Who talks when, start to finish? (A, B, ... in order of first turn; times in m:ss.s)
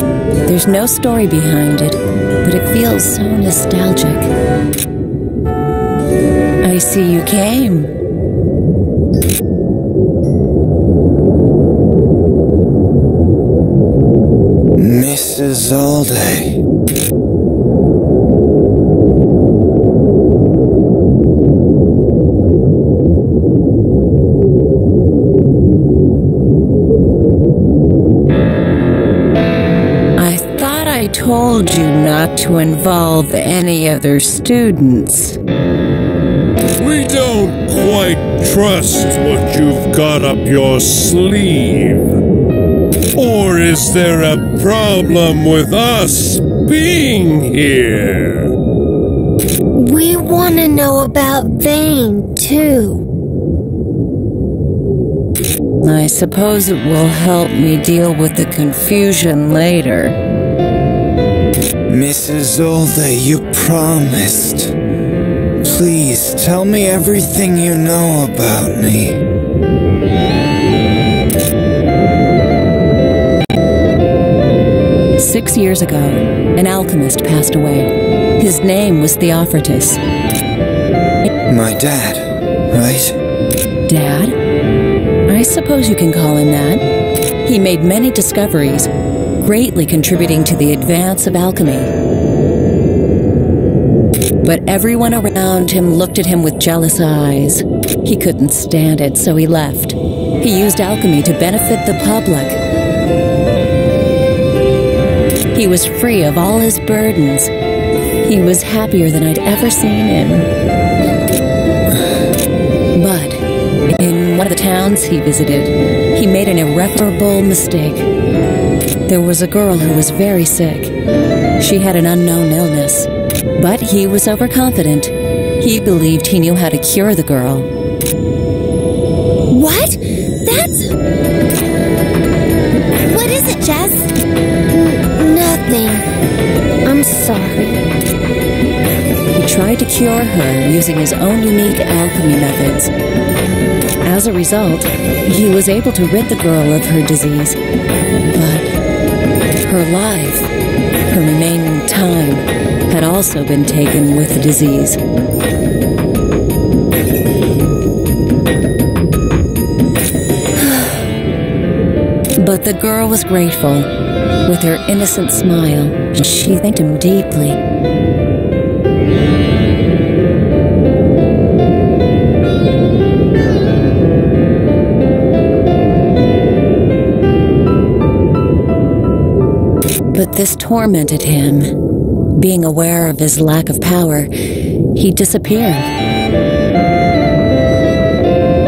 0:00.4-0:04.3 A
0:06.6-0:07.9 A
0:14.8-0:16.6 B
0:30.2-0:35.4 A
0:36.8-0:42.1 C
0:43.1-0:48.5 C
0:49.8-0:53.0 D
0:55.8-1:00.2 A
1:01.9-1:04.7 B
1:05.6-1:09.2 B
1:15.2-1:20.0 A
1:21.4-1:23.2 B
1:23.8-1:24.4 A
1:25.2-1:26.8 A
1:27.4-1:31.9 A
1:34.4-1:42.6 A
1:45.5-1:47.5 A
1:48.2-1:50.5 A
1:52.9-1:58.1 A
1:59.0-2:00.9 A
2:01.6-2:07.7 A
2:09.5-2:10.9 D
2:13.1-2:14.1 D
2:14.7-2:16.0 D
2:16.8-2:17.8 D
2:19.3-2:22.9 A
2:24.0-2:27.6 A
2:28.3-2:28.7 A
2:29.6-2:30.5 A
2:31.1-2:35.0 A
2:40.6-2:41.0 A
2:42.3-2:43.9 A
2:44.4-2:47.6 A
3:00.1-3:01.7 A
3:02.3-3:04.3 A
3:04.9-3:05.9 A